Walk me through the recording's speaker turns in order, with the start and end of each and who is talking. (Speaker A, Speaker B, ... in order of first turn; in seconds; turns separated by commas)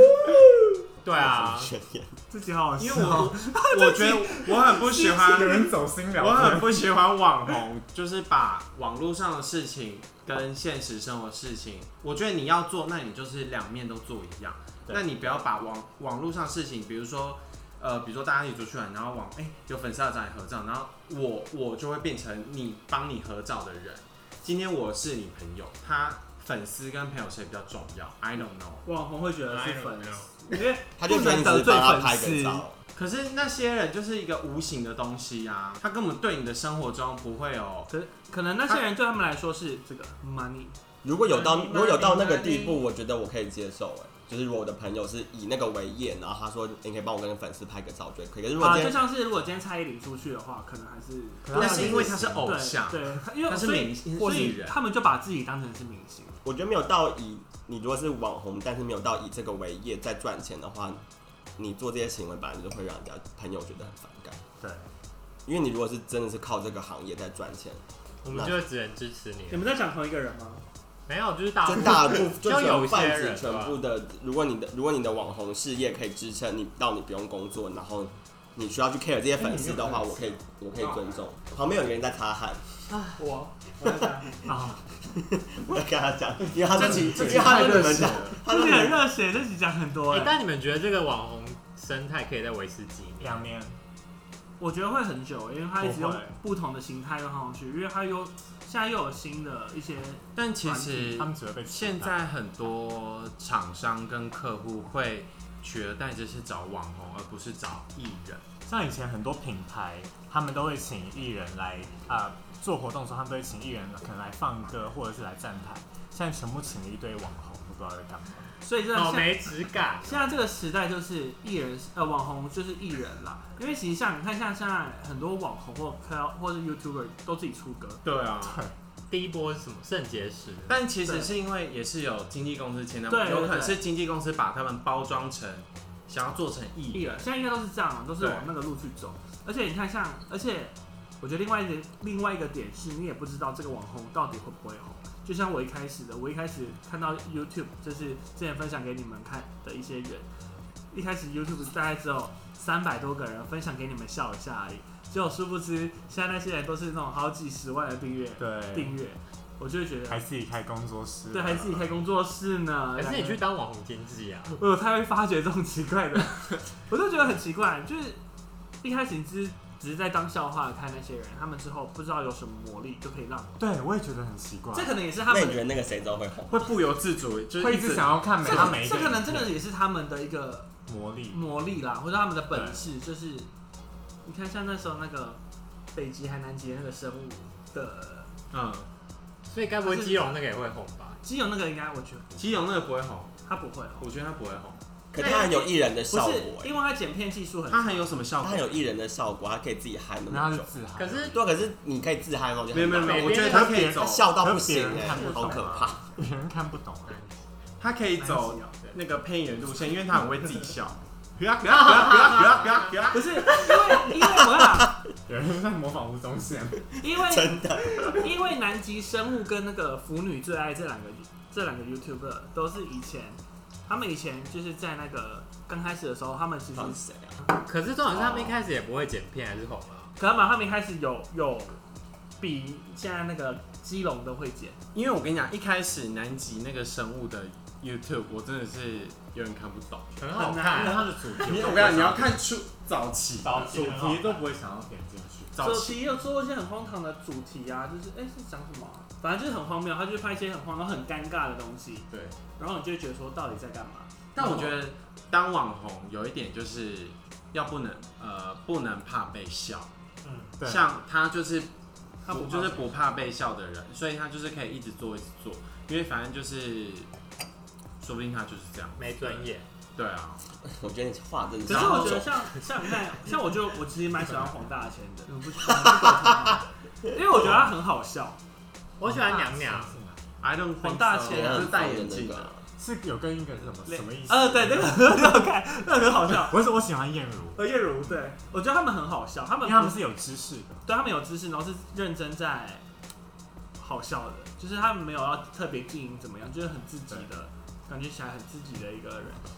Speaker A: 1.0-1.7, Speaker B: 1.1-2.2, Speaker C: 2.3-5.7, Speaker D: 2.8-28.8, Speaker E: 5.0-6.9, Speaker C: 28.9-32.6, Speaker A: 29.5-30.6, Speaker B: 31.0-32.8, Speaker D: 33.0-37.9, Speaker C: 37.9-40.8, Speaker B: 41.0-49.0, Speaker D: 41.3-42.7, Speaker A: 41.4-42.8, Speaker C: 48.6-56.4, Speaker E: 51.4-52.5, Speaker D: 51.5-54.8, Speaker B: 56.4-61.0, Speaker B: 61.6-64.4, Speaker E: 64.6-64.9, Speaker B: 65.5-68.6, Speaker A: 68.2-69.7, Speaker C: 69.5-70.6, Speaker A: 71.1-73.8, Speaker B: 71.6-82.9, Speaker D: 79.5-80.1, Speaker D: 80.8-81.2, Speaker A: 82.9-83.2, Speaker C: 83.2-84.5, Speaker E: 84.5-84.8, Speaker B: 85.1-89.0, Speaker D: 86.7-88.4, Speaker C: 88.5-90.4, Speaker A: 90.1-93.4, Speaker E: 93.2-93.8, Speaker C: 94.6-101.3, Speaker E: 95.8-96.4, Speaker D: 100.4-108.4, Speaker E: 101.2-102.2, Speaker E: 108.7-118.5, Speaker C: 118.6-128.0, Speaker A: 118.9-120.4, Speaker D: 128.0-128.6, Speaker E: 128.4-128.7, Speaker A: 129.1-130.8, Speaker D: 130.7-137.3, Speaker C: 131.1-131.3, Speaker C: 133.1-133.8, Speaker C: 136.9-150.3, Speaker D: 138.2-138.5, Speaker C: 150.9-160.2, Speaker E: 158.4-158.9, Speaker E: 160.1-162.0, Speaker C: 161.3-163.4, Speaker A: 163.0-164.6, Speaker C: 164.5-168.2, Speaker C: 168.8-173.6, Speaker E: 173.6-175.0, Speaker C: 174.7-175.6, Speaker B: 175.3-176.7, Speaker D: 176.5-178.6, Speaker E: 177.6-179.5, Speaker C: 178.4-180.7, Speaker E: 180.9-181.4, Speaker C: 181.3-183.5, Speaker E: 182.5-182.9, Speaker C: 184.2-185.4, Speaker C: 185.9-188.3, Speaker D: 188.5-188.9, Speaker A: 189.5-191.2, Speaker C: 189.8-190.3, Speaker C: 191.2-192.5, Speaker D: 192.4-193.3, Speaker C: 193.5-194.1, Speaker D: 194.0-195.3, Speaker B: 195.1-196.8, Speaker C: 195.2-198.1, Speaker D: 197.7-198.8, Speaker B: 198.4-200.7, Speaker E: 200.3-201.5, Speaker A: 201.0-201.4, Speaker B: 201.3-206.1, Speaker D: 202.7-204.3, Speaker A: 203.0-203.8, Speaker E: 203.4-207.2, Speaker C: 205.1-205.7, Speaker A: 207.1-207.4, Speaker D: 207.8-213.7, Speaker C: 208.2-208.8, Speaker A: 211.9-212.9, Speaker C: 213.1-214.9, Speaker B: 214.4-214.9, Speaker E: 215.3-216.9, Speaker C: 217.0-227.0, Speaker B: 217.0-218.3, Speaker B: 226.7-227.4, Speaker A: 227.6-230.1, Speaker B: 228.2-228.6, Speaker C: 230.2-231.8, Speaker C: 232.4-234.8, Speaker D: 234.9-240.3, Speaker A: 240.2-241.4, Speaker C: 240.3-241.3, Speaker E: 240.4-242.4, Speaker D: 241.3-243.9, Speaker E: 243.4-245.5, Speaker A: 243.4-244.3, Speaker D: 245.5-246.0, Speaker C: 245.6-254.7, Speaker D: 252.1-252.4, Speaker D: 254.3-259.9, Speaker A: 260.2-260.5, Speaker E: 260.6-260.9, Speaker D: 260.6-261.7, Speaker C: 262.2-263.0, Speaker D: 262.3-267.1, Speaker D: 268.0-270.4, Speaker A: 269.0-269.7, Speaker B: 270.6-272.3, Speaker C: 271.7-278.4, Speaker D: 271.7-272.2, Speaker B: 275.8-276.3, Speaker A: 279.0-280.0, Speaker E: 279.0-280.2, Speaker D: 280.4-282.5, Speaker C: 280.8-281.7, Speaker B: 281.3-282.6, Speaker E: 282.8-285.4, Speaker C: 283.9-286.6, Speaker E: 286.3-287.6, Speaker C: 287.6-290.1, Speaker E: 289.6-290.9, Speaker C: 290.9-292.9, Speaker C: 293.8-299.4